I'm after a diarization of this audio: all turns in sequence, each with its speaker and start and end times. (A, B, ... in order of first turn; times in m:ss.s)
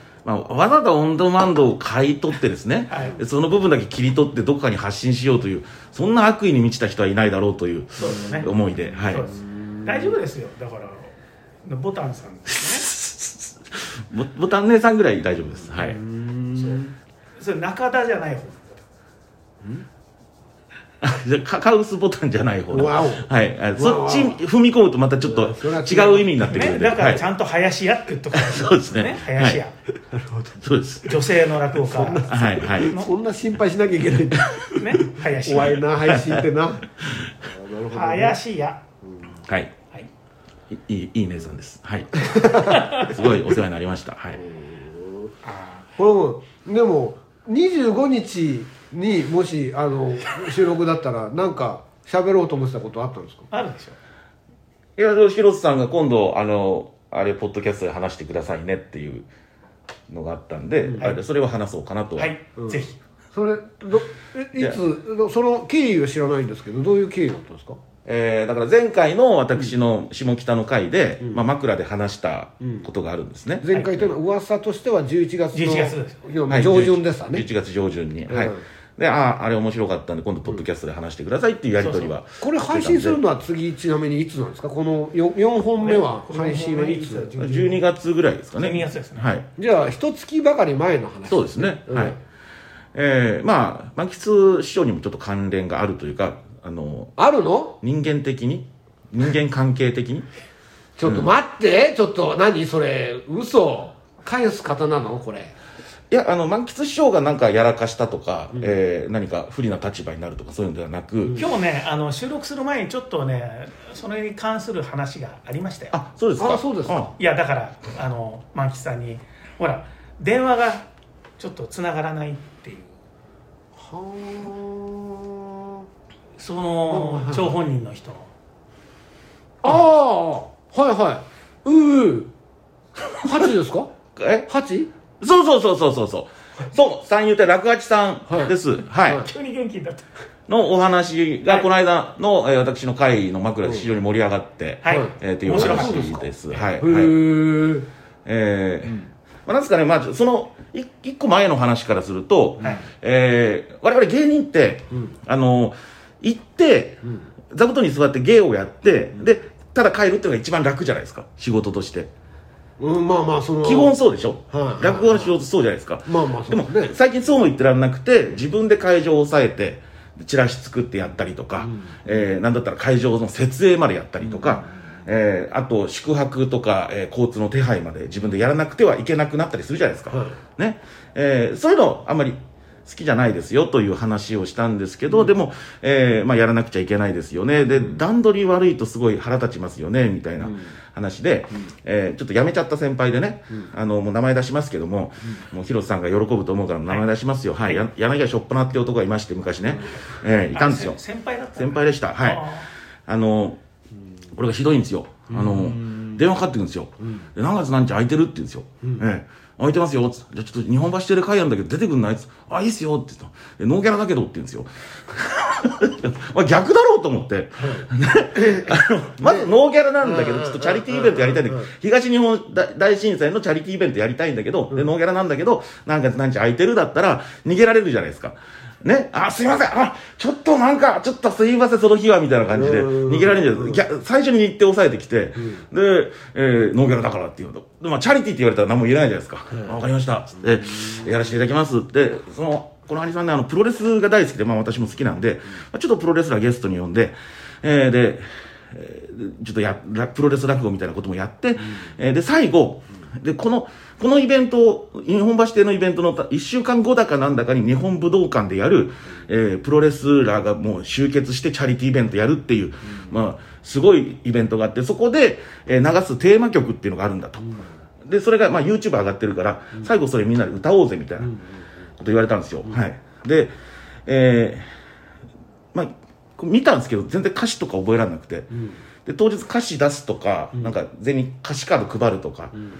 0:00.2-0:09.3 A
0:02.9-0:03.2 B
0:08.0-0:08.5 B
0:09.0-0:11.1 B
0:09.5-0:10.1 C
0:11.6-0:12.9 B
0:12.5-0:16.0 A
0:15.7-0:16.9 C
0:16.6-0:16.8 B
0:17.4-0:18.8 B
0:21.0-0:27.2 A
0:22.7-0:24.4 C
0:25.2-0:26.7 C
0:26.4-0:29.7 B
0:28.3-0:29.6 A
0:30.1-0:30.6 C
0:30.6-0:31.2 A
0:31.0-0:33.1 B
0:31.7-0:34.5 C
0:32.2-0:32.9 A
0:34.7-0:35.8 B
0:35.3-0:36.8 C
0:36.0-0:36.4 A
0:37.0-0:37.3 A
0:37.4-0:38.4 C
0:37.9-0:38.8 B
0:40.7-0:44.4 A
0:42.2-0:42.8 C
0:42.7-0:43.0 B
0:44.4-0:45.3 C
0:45.4-0:45.8 B
0:46.0-0:53.5 C
0:53.5-0:54.0 B
0:55.0-0:59.3 A
1:00.1-1:02.3 A
1:00.8-1:01.2 C
1:02.2-1:03.0 B
1:02.6-1:07.8 C
1:08.0-1:13.7 A
1:12.6-1:12.9 C
1:13.6-1:17.4 C
1:15.5-1:16.2 B
1:16.5-1:23.2 A
1:18.3-1:18.6 C
1:21.8-1:22.1 B
1:22.4-1:27.4 C
1:25.8-1:27.8 B
1:27.4-1:29.4 A
1:28.6-1:29.3 B
1:29.6-1:32.2 C
1:31.3-1:32.2 A
1:32.9-1:37.1 A
1:37.2-1:37.8 C
1:37.8-1:40.2 A
1:41.0-1:45.5 C
1:46.1-1:51.4 A
1:51.2-1:51.5 C
1:51.4-1:55.9 B
1:55.9-1:57.1 A
1:56.4-1:57.1 C
1:57.2-2:00.9 B
2:01.4-2:02.9 B
2:03.7-2:05.8 C
2:06.4-2:08.3 B
2:06.9-2:07.5 C
2:09.6-2:12.3 C
2:13.1-2:13.9 C
2:14.2-2:14.5 A
2:14.5-2:14.9 C
2:15.2-2:19.2 A
2:18.3-2:18.5 C
2:19.1-2:20.1 B
2:20.5-2:27.2 A
2:24.8-2:26.2 B
2:24.9-2:27.9 C
2:28.2-2:42.1 A
2:42.8-2:43.9 C
2:43.6-3:21.0 A
2:44.5-2:45.3 C
2:46.0-2:47.0 C
2:51.6-2:52.1 C
2:54.2-2:54.6 C
3:00.1-3:00.4 C
3:10.4-3:10.7 C
3:20.5-3:22.7 B
3:21.6-3:22.5 A
3:23.1-3:23.6 A
3:24.3-4:31.4 A
3:25.3-3:26.1 C
3:37.6-3:39.5 C
3:40.0-3:41.7 C
3:52.5-3:53.8 C
4:32.0-4:33.5 A
4:34.0-4:34.7 A
4:35.7-4:38.5 A
4:38.5-4:38.8 C
4:39.0-4:42.6 A